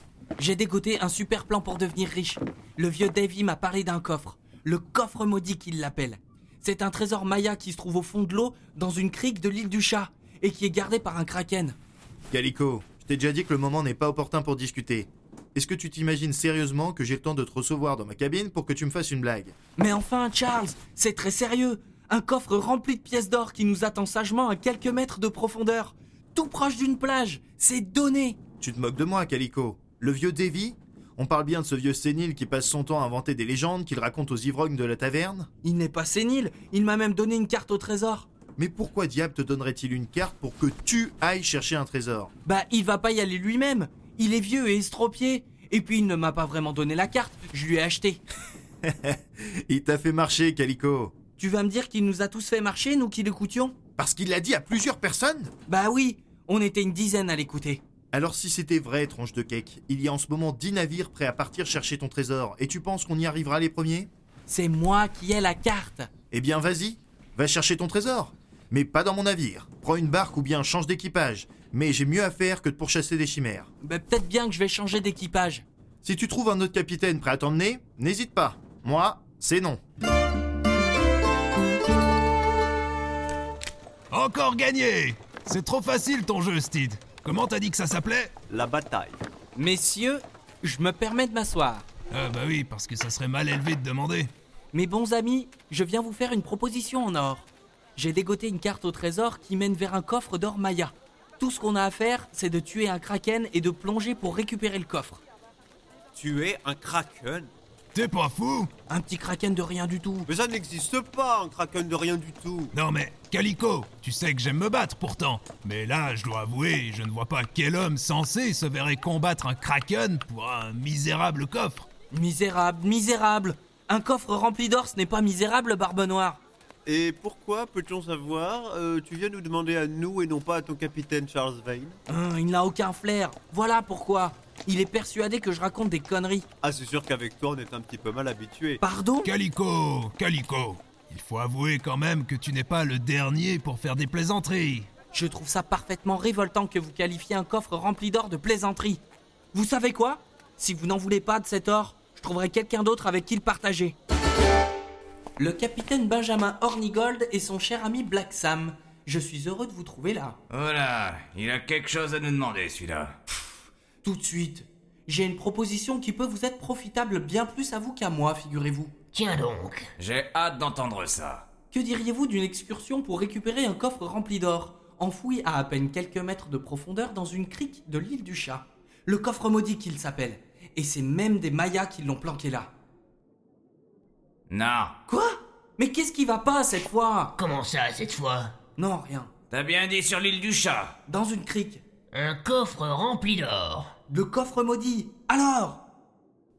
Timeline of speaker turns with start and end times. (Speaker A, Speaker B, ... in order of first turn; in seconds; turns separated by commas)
Speaker A: 0.4-11.8, Speaker B: 12.3-19.5, Speaker A: 19.8-28.4, Speaker B: 28.6-35.5, Speaker A: 35.6-38.3, Speaker B: 38.6-42.3, Speaker A: 42.5-48.2, Speaker B: 48.8-51.1, Speaker A: 51.4-53.7, Speaker B: 54.0-55.5, Speaker A: 55.7-57.8, Speaker B: 58.1-64.1, Speaker A: 64.5-66.1, Speaker B: 66.3-73.7, Speaker A: 73.8-75.6, Speaker B: 76.0-79.8, Speaker C: 84.1-88.3, Speaker D: 88.5-89.2, Speaker A: 89.6-91.8, Speaker C: 92.1-94.3, Speaker A: 94.7-105.2, Speaker D: 106.2-107.5, Speaker C: 107.9-108.7, Speaker A: 108.9-110.3, Speaker D: 110.3-112.7, Speaker C: 112.7-121.9, Speaker A: 122.1-126.4, Speaker D: 126.9-132.0, Speaker A: 132.1-136.4, Speaker D: 136.6-138.8, Speaker A: 138.8-139.3, Speaker C: 139.2-144.9, Speaker A: 145.1-149.0, Speaker A: 149.5-153.9, Speaker A: 155.4-160.4, Speaker E: 160.5-163.1, Speaker A: 164.0-168.9, Speaker F: 169.1-169.9, Speaker E: 170.0-171.4, Speaker A: 171.7-182.7, Speaker E: 184.5-184.9, Speaker A: 185.1-187.3, Speaker F: 187.4-188.5, Speaker A: 188.8-189.3, Speaker E: 189.5-190.9, Speaker A: 191.1-191.8, Speaker F: 192.1-193.9, Speaker A: 194.1-195.8